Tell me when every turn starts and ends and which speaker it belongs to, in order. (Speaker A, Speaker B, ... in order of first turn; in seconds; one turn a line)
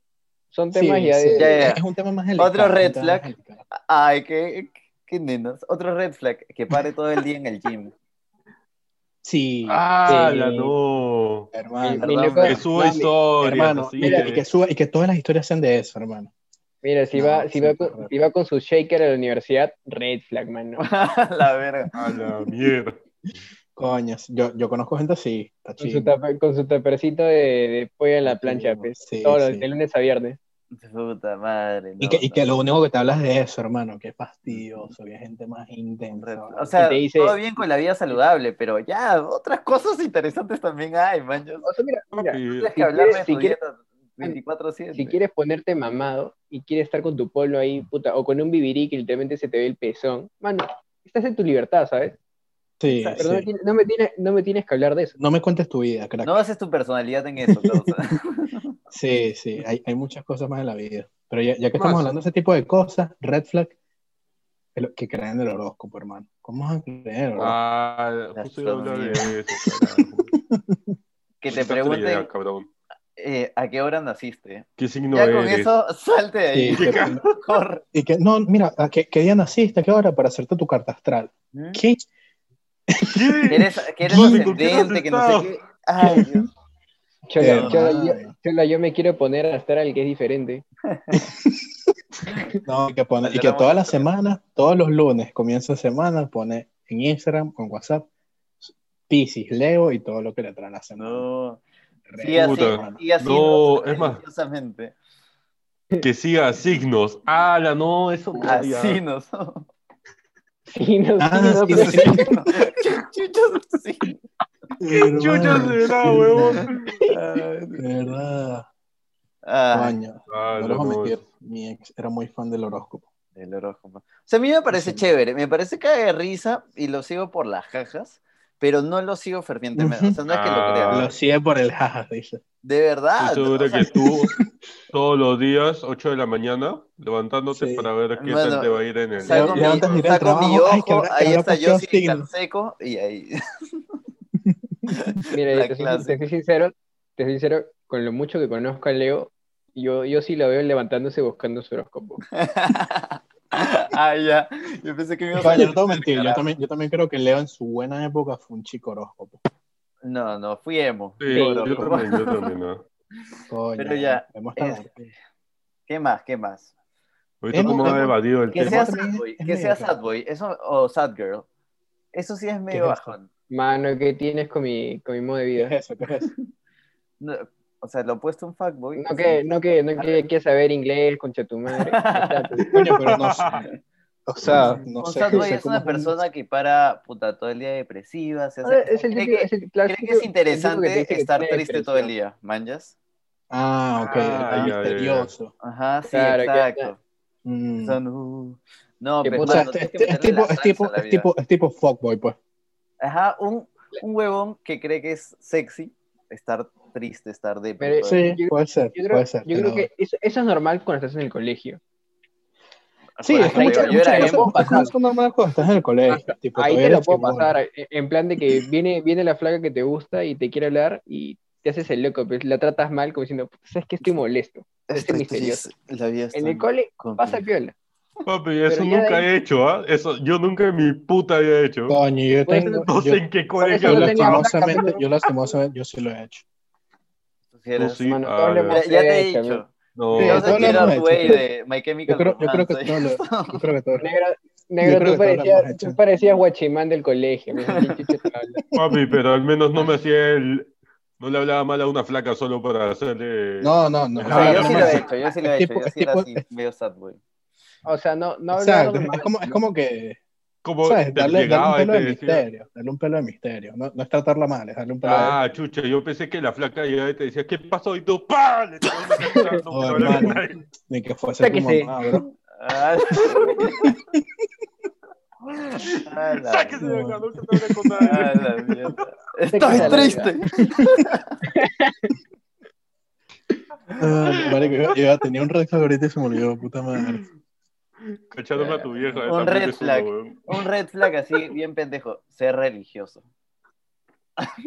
Speaker A: 0.5-1.6
Speaker B: 0.7-3.6
Speaker C: 1.4-1.8
Speaker C: 2.4-7.9
Speaker B: 9.2-9.8
Speaker D: 9.7-11.5
Speaker A: 10.1-10.7
Speaker B: 11.5-12.2
Speaker A: 11.8-13.1
Speaker C: 11.9-12.6
Speaker D: 12.4-14.4
Speaker B: 13.4-16.3
Speaker A: 14.0-14.3
Speaker A: 16.8-20.8
Speaker B: 17.1-18.1
Speaker C: 20.8-21.9
Speaker D: 21.9-23.0
Speaker B: 23.8-26.1
Speaker A: 25.8-30.4
Speaker B: 28.2-29.6
Speaker C: 30.7-32.5
Speaker B: 32.0-36.7
Speaker C: 34.5-34.9
Speaker C: 36.2-41.7
Speaker A: 36.8-37.4
Speaker A: 41.6-43.6
Speaker D: 42.1-42.7
Speaker C: 42.5-45.2
Speaker A: 44.9-52.2
Speaker B: 52.8-53.5
Speaker C: 52.9-53.2
Speaker A: 53.1-55.1
Speaker B: 55.2-56.4
Speaker C: 56.2-58.8
Speaker B: 57.5-57.8
Speaker B: 58.9-63.8
Speaker D: 61.8-62.1
Speaker B: 64.8-67.6
Speaker D: 67.4-70.3
Speaker C: 68.4-69.3
Speaker B: 70.5-71.0
Speaker C: 71.4-72.3
Speaker D: 71.5-72.7
Speaker C: 73.2-77.8
Speaker D: 74.8-75.7
Speaker B: 76.5-77.2
Speaker D: 76.7-77.4
Speaker B: 77.9-82.0
Speaker C: 81.5-81.8
Speaker B: 82.9-84.5
Speaker D: 83.0-85.5
Speaker C: 83.5-86.5
Speaker B: 86.0-86.5
Speaker A: 87.3-90.6
Speaker B: 87.4-88.3
Speaker C: 87.4-87.9
Speaker C: 90.9-91.2
Speaker B: 91.1-91.7
Speaker B: 92.6-98.1
Speaker C: 93.2-94.1
Speaker B: 99.1-101.3
Speaker C: 101.0-101.6
Speaker B: 102.1-103.0
Speaker C: 102.2-104.9
Speaker D: 102.3-104.2
Speaker D: 106.0-109.0
Speaker C: 108.4-109.7
Speaker A: 110.7-112.2
Speaker B: 111.2-112.4
Speaker C: 111.7-114.2
Speaker B: 114.8-116.6
Speaker D: 114.9-116.9
Speaker C: 116.4-118.2
Speaker B: 117.8-118.7
Speaker C: 119.4-120.0
Speaker B: 119.7-123.0
Speaker D: 120.3-121.2
Speaker C: 123.4-131.1
Speaker B: 124.7-125.0
Speaker B: 129.8-130.2
Speaker D: 130.3-131.1
Speaker B: 130.9-132.4
Speaker C: 132.6-133.9
Speaker D: 133.2-134.3
Speaker B: 133.9-134.4
Speaker D: 134.9-140.1
Speaker B: 137.5-137.9
Speaker C: 138.2-143.8
Speaker B: 139.3-142.3
Speaker B: 144.4-144.9
Speaker C: 144.9-146.2
Speaker A: 145.3-152.2
Speaker C: 152.3-156.4
Speaker B: 155.4-159.4
Speaker C: 160.0-162.5
Speaker D: 161.2-162.8
Speaker A: 161.3-161.9
Speaker B: 163.5-164.9
Speaker C: 163.8-165.2
Speaker C: 165.9-166.7
Speaker D: 167.4-168.9
Speaker B: 167.5-169.9
Speaker C: 167.6-171.5
Speaker C: 172.1-173.3
Speaker B: 172.7-173.1
Speaker A: 173.5-175.8
Speaker B: 175.6-176.3
Speaker C: 177.2-180.2
Speaker A: 178.9-182.7
Speaker C: 181.7-182.5
Speaker D: 182.7-183.6
Speaker B: 182.7-183.6
Speaker B: 184.3-186.2
Speaker C: 184.5-192.9
Speaker A: 188.6-192.1
Speaker B: 193.5-195.5
Speaker D: 194.1-195.3
Speaker C: 194.1-194.7
Speaker C: 195.6-197.0
Speaker A: 196.1-196.9
Speaker B: 197.4-198.0
Speaker C: 197.8-201.3
Speaker A: 199.2-199.7
Speaker B: 199.4-202.4
Speaker C: 203.0-208.2
Speaker A: 207.8-211.8
Speaker B: 208.1-209.9
Speaker C: 213.2-214.9
Speaker B: 213.2-217.6
Speaker A: 213.4-214.9
Speaker A: 216.1-225.7
Speaker C: 224.9-227.4
Speaker A: 226.3-227.8
Speaker D: 228.3-232.0
Speaker A: 228.7-229.3
Speaker B: 231.9-233.3
Speaker A: 232.4-232.9
Speaker D: 232.9-234.5
Speaker A: 233.6-235.0
Speaker B: 233.8-236.4
Speaker C: 237.5-238.0
Speaker D: 237.8-238.8
Speaker A: 238.1-239.6
Speaker C: 238.7-243.6
Speaker D: 239.9-241.0
Speaker B: 240.1-241.4
Speaker B: 242.1-244.1
Speaker A: 244.0-248.6
Speaker B: 244.8-246.0
Speaker C: 247.6-248.0
Speaker D: 248.8-255.0
Speaker B: 253.6-256.4
Speaker C: 254.3-257.2
Speaker A: 254.4-255.1
Speaker A: 257.9-259.6
Speaker B: 258.5-260.2
Speaker D: 260.6-262.4
Speaker B: 260.8-265.4
Speaker A: 265.0-265.3
Speaker D: 265.1-270.6
Speaker B: 269.7-272.2
Speaker A: 271.4-271.9
Speaker C: 272.3-273.9
Speaker B: 273.8-274.2
Speaker C: 275.4-276.8
Speaker D: 276.3-278.8
Speaker B: 276.8-278.1
Speaker C: 278.1-281.3
Speaker A: 279.5-280.3
Speaker B: 279.7-280.1
Speaker A: 281.5-282.1
Speaker B: 284.0-287.2
Speaker D: 286.9-287.3
Speaker D: 288.0-290.5
Speaker C: 288.6-293.2